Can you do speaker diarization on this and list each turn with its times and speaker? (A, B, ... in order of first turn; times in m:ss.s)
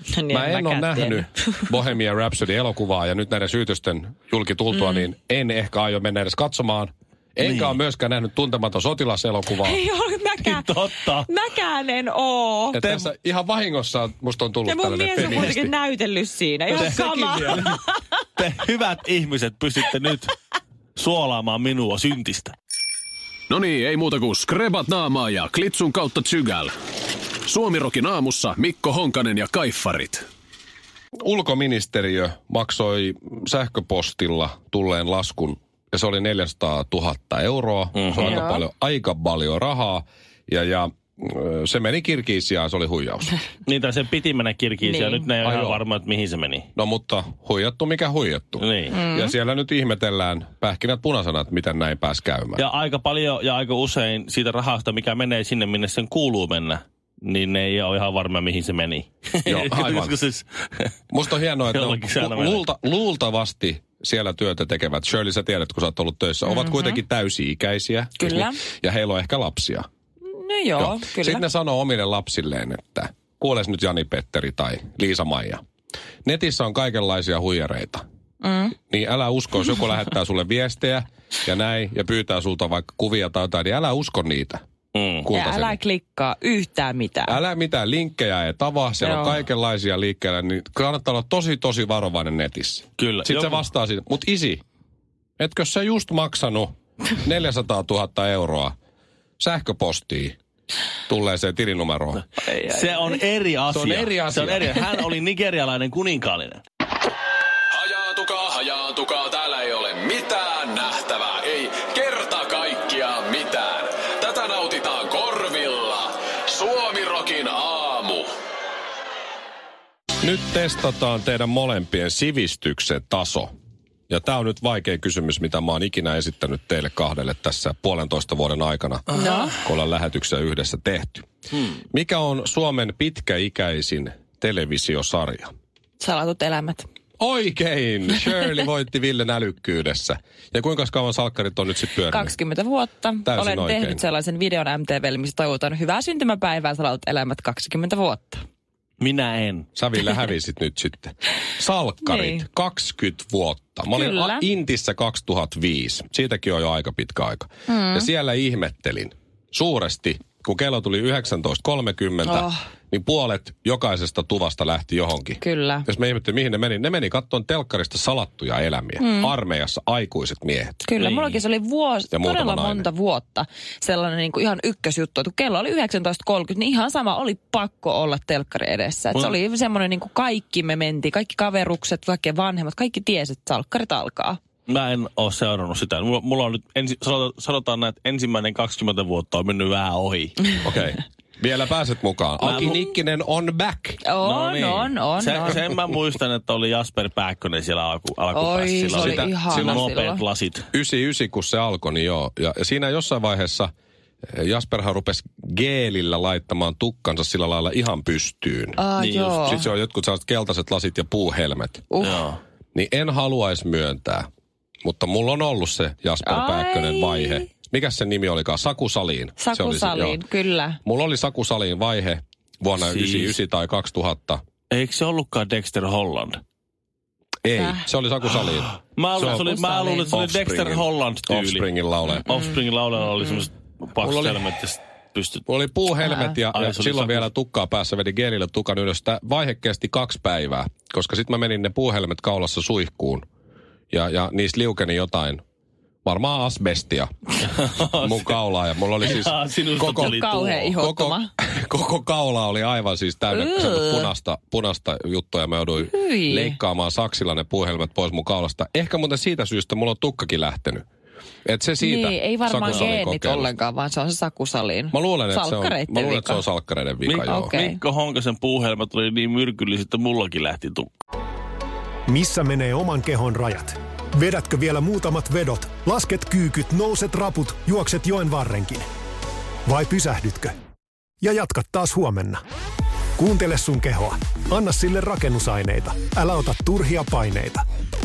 0:00.1-0:01.7 A
0:00.3-0:09.8 B
0:04.7-0:05.1 A
0:07.4-0:07.8 C
0:09.6-0:12.8 A
0:10.4-0:11.3 C
0:12.7-0:15.7 B
0:14.6-0:18.0 A
0:16.7-0:17.8 C
0:18.4-0:20.3 C
0:21.0-0:22.5 C
0:23.5-0:26.7 D
0:27.4-0:30.2 D
0:31.2-0:43.3 B
0:37.9-0:38.5 C
0:38.2-0:38.6 A
0:43.6-0:46.7 C
0:44.8-0:45.2 A
0:45.4-0:45.8 B
0:46.8-0:52.6 B
0:48.6-0:49.0 C
0:48.9-0:49.3 A
0:52.6-1:00.9 C
0:59.4-1:00.1 B
1:01.1-1:09.8 B
1:01.7-1:02.6 C
1:06.4-1:07.0 A
1:08.2-1:08.6 A
1:10.3-1:11.4 A
1:10.8-1:15.6 B
1:16.2-1:18.0 B
1:18.4-1:18.8 A
1:18.9-1:24.6 B
1:24.9-1:25.3 C
1:25.2-1:25.8 B
1:25.3-1:27.4 A
1:27.2-1:34.6 B
1:29.0-1:29.4 A
1:33.0-1:33.6 C
1:35.4-1:38.7 B
1:39.4-1:40.4 B
1:41.1-1:42.2 B
1:42.4-1:46.6 C
1:43.7-1:44.8 B
1:47.7-1:58.3 D
2:00.2-2:03.5 B
2:04.1-2:11.3 B
2:09.1-2:09.6 A
2:11.8-2:15.5 B
2:16.0-2:16.9 A
2:17.2-2:22.3 B
2:22.1-2:28.4 A
2:23.2-2:24.0 B
2:29.0-2:29.7 C
2:29.7-2:50.8 B
2:32.0-2:32.4 A
2:33.9-2:34.5 A
2:37.7-2:38.1 A
2:42.2-2:42.6 A
2:45.4-2:45.8 A
2:49.0-2:49.3 A
2:50.8-3:04.4 A
2:51.0-2:51.4 C
2:52.1-2:52.9 B
3:04.7-3:10.6 C
3:10.6-3:14.0 B
3:12.4-3:12.8 C
3:14.0-3:15.6 A
3:14.2-3:20.7 C
3:18.3-3:20.2 A
3:18.9-3:19.9 B
3:20.7-3:23.7 B
3:24.3-3:28.8 B
3:28.8-3:29.6 A
3:29.0-3:29.6 C
3:29.4-3:31.9 B
3:31.9-3:32.2 A
3:32.0-3:32.4 C
3:32.7-3:34.3 B
3:34.8-3:40.2 B
3:36.2-3:37.5 A
3:39.4-3:40.8 A
3:40.8-3:44.4 B
3:42.8-3:43.4 C
3:44.7-3:46.4 C
3:47.4-3:49.4 B
3:47.6-3:47.9 A
3:49.0-3:55.4 C
3:49.2-3:50.2 A
3:50.1-3:52.3 B
3:54.0-3:54.5 B
3:55.4-4:03.2 B
3:56.5-3:57.3 C
4:03.9-4:05.4 B
4:06.0-4:07.1 B
4:07.4-4:08.4 C
4:07.9-4:20.8 B
4:09.0-4:10.7 C
4:09.9-4:11.3 A
4:13.3-4:14.1 A
4:15.8-4:16.6 A
4:21.4-4:23.5 B
4:21.8-4:26.4 A
4:22.7-4:22.9 C
4:24.9-4:27.6 B
4:27.0-4:30.9 C
4:27.2-4:27.8 A
4:32.1-4:38.9 E
4:39.6-4:40.5 E
4:41.2-4:42.4 E
4:43.2-4:47.6 E